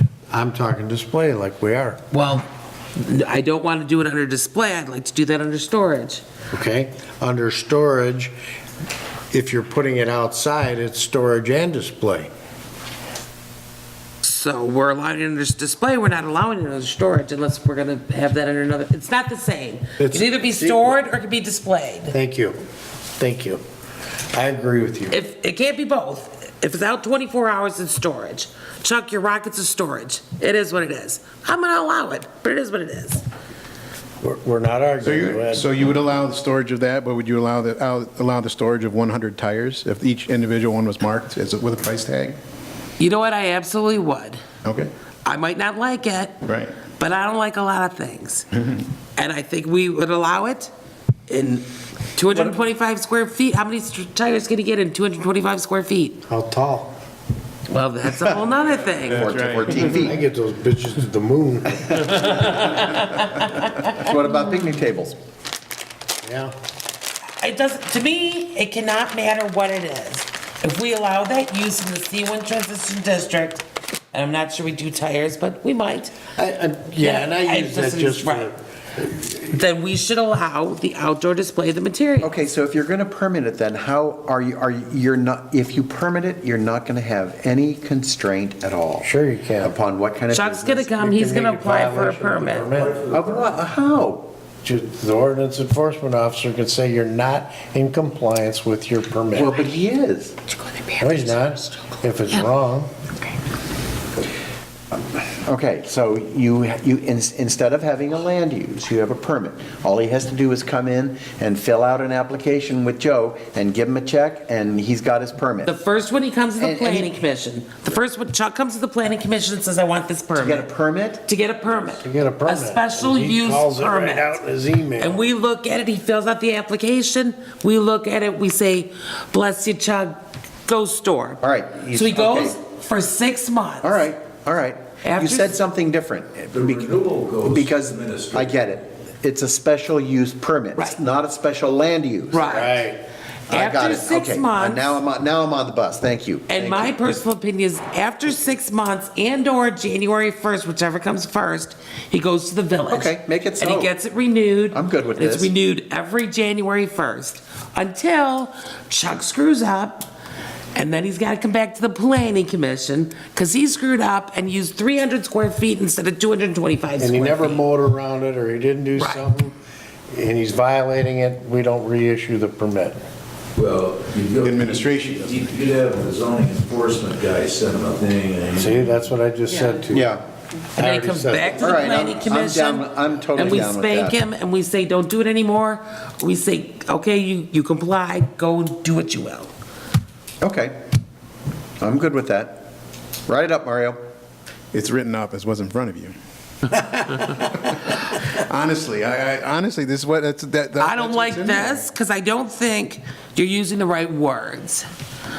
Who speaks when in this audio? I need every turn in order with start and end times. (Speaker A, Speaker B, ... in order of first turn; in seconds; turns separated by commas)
Speaker A: 0.3-2.0, Speaker B: 2.1-6.2, Speaker A: 6.5-8.3, Speaker A: 9.3-12.3, Speaker B: 14.2-22.1, Speaker A: 20.0-20.9, Speaker A: 22.1-22.6, Speaker A: 23.2-23.6, Speaker A: 24.3-25.2, Speaker B: 25.1-33.2, Speaker A: 34.2-35.7, Speaker C: 35.0-42.4, Speaker B: 43.0-44.4, Speaker C: 44.6-44.9, Speaker B: 45.2-48.6, Speaker C: 46.5-46.7, Speaker B: 49.1-50.7, Speaker B: 51.3-56.2, Speaker A: 56.3-56.9, Speaker B: 57.7-59.4, Speaker C: 59.0-60.1, Speaker D: 59.5-60.1, Speaker A: 60.0-62.5, Speaker B: 62.3-63.9, Speaker C: 63.0-63.6, Speaker D: 63.9-65.2, Speaker A: 66.2-66.5, Speaker B: 67.4-76.1, Speaker A: 76.3-78.5, Speaker B: 77.0-78.5, Speaker B: 79.2-82.4, Speaker D: 82.2-89.1, Speaker A: 89.0-89.7, Speaker D: 89.6-90.9, Speaker B: 90.3-92.8, Speaker A: 90.9-93.0, Speaker E: 92.7-93.5, Speaker D: 93.1-94.3, Speaker A: 94.6-99.6, Speaker D: 99.3-100.3, Speaker B: 100.5-102.5, Speaker A: 101.0-102.9, Speaker D: 105.4-115.7, Speaker B: 115.7-120.7, Speaker D: 116.6-117.2, Speaker D: 120.4-121.2, Speaker B: 121.2-124.4, Speaker A: 122.0-125.2, Speaker B: 125.0-134.0, Speaker D: 131.4-132.6, Speaker D: 133.8-136.8, Speaker B: 135.0-135.5, Speaker E: 136.5-138.6, Speaker D: 137.5-142.7, Speaker B: 142.3-142.8, Speaker A: 142.4-143.0, Speaker D: 143.5-147.0, Speaker B: 143.5-145.0, Speaker B: 146.5-160.1, Speaker D: 152.9-153.9, Speaker D: 154.7-155.5, Speaker B: 160.7-167.6, Speaker A: 167.0-169.5, Speaker B: 169.0-169.2, Speaker A: 170.1-173.0, Speaker E: 173.6-179.0, Speaker C: 174.4-175.7, Speaker A: 178.6-180.1, Speaker D: 179.9-180.2, Speaker A: 180.8-181.8, Speaker B: 180.8-189.5, Speaker D: 181.6-184.2, Speaker D: 190.4-190.8, Speaker D: 191.8-192.6, Speaker D: 193.3-194.0, Speaker C: 194.7-196.1, Speaker C: 196.7-201.8, Speaker B: 200.8-204.9